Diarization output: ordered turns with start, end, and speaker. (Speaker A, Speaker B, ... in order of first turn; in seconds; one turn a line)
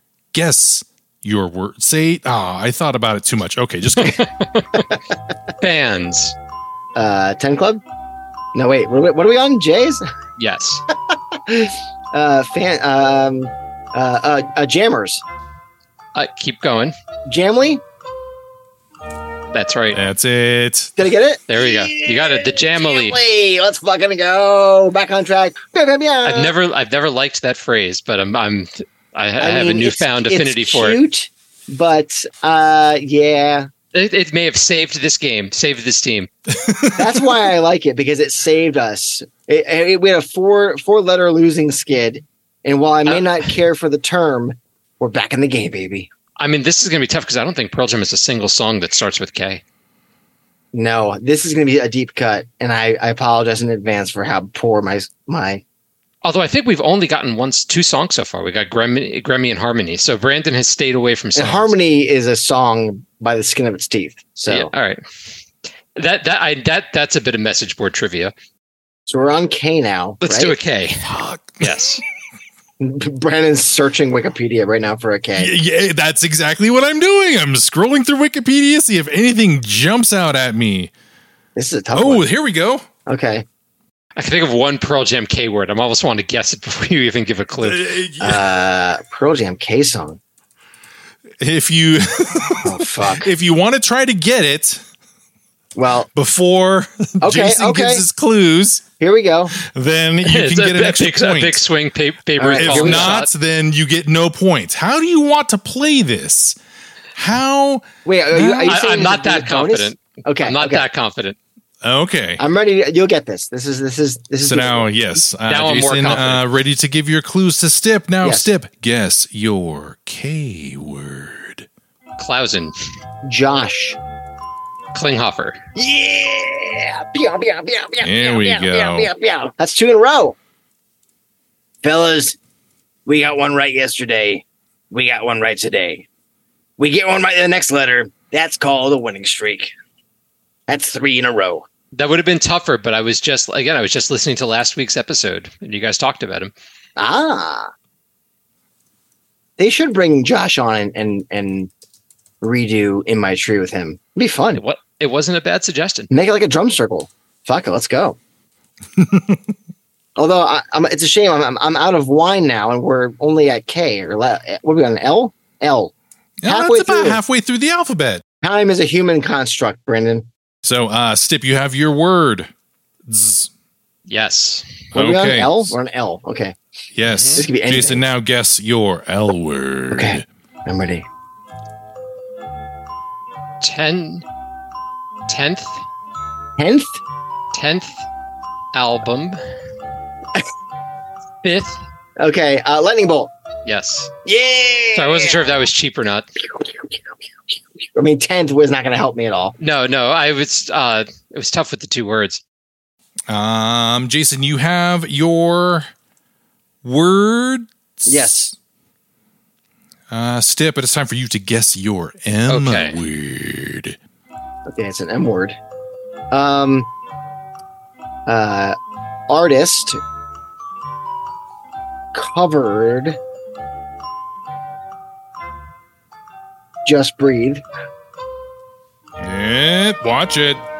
Speaker A: 0.3-4.2
Speaker B: 4.0-4.9
Speaker B: 5.6-6.3
Speaker C: 6.9-7.8
Speaker C: 8.5-10.0
Speaker B: 10.4-10.8
Speaker C: 11.3-15.2
Speaker B: 16.1-16.9
Speaker C: 17.3-17.8
Speaker B: 19.5-20.0
Speaker A: 19.9-21.0
Speaker C: 21.0-26.5
Speaker B: 21.5-23.2
Speaker B: 26.2-31.0
Speaker C: 29.4-33.7
Speaker B: 33.9-36.3
Speaker A: 36.5-37.3
Speaker C: 36.9-46.1
Speaker B: 43.0-43.5
Speaker B: 46.4-49.6
Speaker C: 50.7-55.6
Speaker B: 56.2-61.7
Speaker C: 61.4-64.7
Speaker B: 64.5-65.0
Speaker B: 65.9-68.3
Speaker C: 69.1-70.5
Speaker B: 70.2-72.0
Speaker A: 71.0-71.8
Speaker C: 72.8-75.5
Speaker A: 75.3-80.9
Speaker C: 81.5-82.2
Speaker A: 81.9-82.8
Speaker C: 83.1-83.4
Speaker B: 84.2-87.8
Speaker A: 87.6-88.5
Speaker C: 88.2-90.2
Speaker A: 91.4-94.8
Speaker C: 92.6-93.3
Speaker C: 95.7-96.1
Speaker A: 96.1-98.8
Speaker C: 97.2-98.0
Speaker C: 99.0-99.5
Speaker A: 99.5-101.6
Speaker B: 100.2-103.3
Speaker C: 102.4-103.2
Speaker A: 102.6-106.5
Speaker A: 107.1-108.8
Speaker C: 108.0-110.8
Speaker B: 108.7-111.4
Speaker A: 111.8-112.4
Speaker C: 112.4-114.9
Speaker A: 114.5-121.7
Speaker B: 115.5-116.4
Speaker C: 118.2-118.5
Speaker B: 122.2-122.7
Speaker C: 123.2-124.0
Speaker B: 124.9-125.6
Speaker C: 125.7-130.3
Speaker A: 128.0-129.1
Speaker C: 131.8-132.4
Speaker C: 133.1-136.1
Speaker C: 136.8-139.7
Speaker C: 140.7-141.6
Speaker B: 141.9-146.5
Speaker C: 147.0-147.7
Speaker C: 149.6-151.7
Speaker C: 152.4-154.6
Speaker B: 154.5-156.1
Speaker C: 156.1-158.2
Speaker A: 158.9-159.5
Speaker C: 160.2-165.9
Speaker A: 166.4-168.2
Speaker C: 166.4-167.2
Speaker C: 168.4-170.3
Speaker A: 170.6-172.5
Speaker A: 173.1-173.5
Speaker B: 174.1-174.8
Speaker A: 174.9-175.8
Speaker C: 174.9-176.6
Speaker A: 176.9-180.2
Speaker B: 177.1-177.4
Speaker C: 177.3-178.0
Speaker C: 179.9-181.1
Speaker B: 183.6-184.2
Speaker B: 185.3-185.8
Speaker C: 186.6-187.0
Speaker B: 187.5-188.0
Speaker B: 188.7-189.4
Speaker B: 191.4-191.8
Speaker C: 192.2-193.3
Speaker B: 193.6-194.1
Speaker C: 194.2-195.5
Speaker B: 194.9-196.3
Speaker C: 197.9-199.5
Speaker B: 199.6-202.4
Speaker A: 203.3-205.9
Speaker A: 206.8-208.3
Speaker C: 208.1-208.5
Speaker A: 210.1-214.0
Speaker B: 212.5-213.0
Speaker C: 214.7-215.6
Speaker C: 216.3-216.9
Speaker C: 218.2-218.8
Speaker C: 219.3-220.0
Speaker C: 222.1-223.2
Speaker C: 226.8-227.6
Speaker A: 229.2-230.6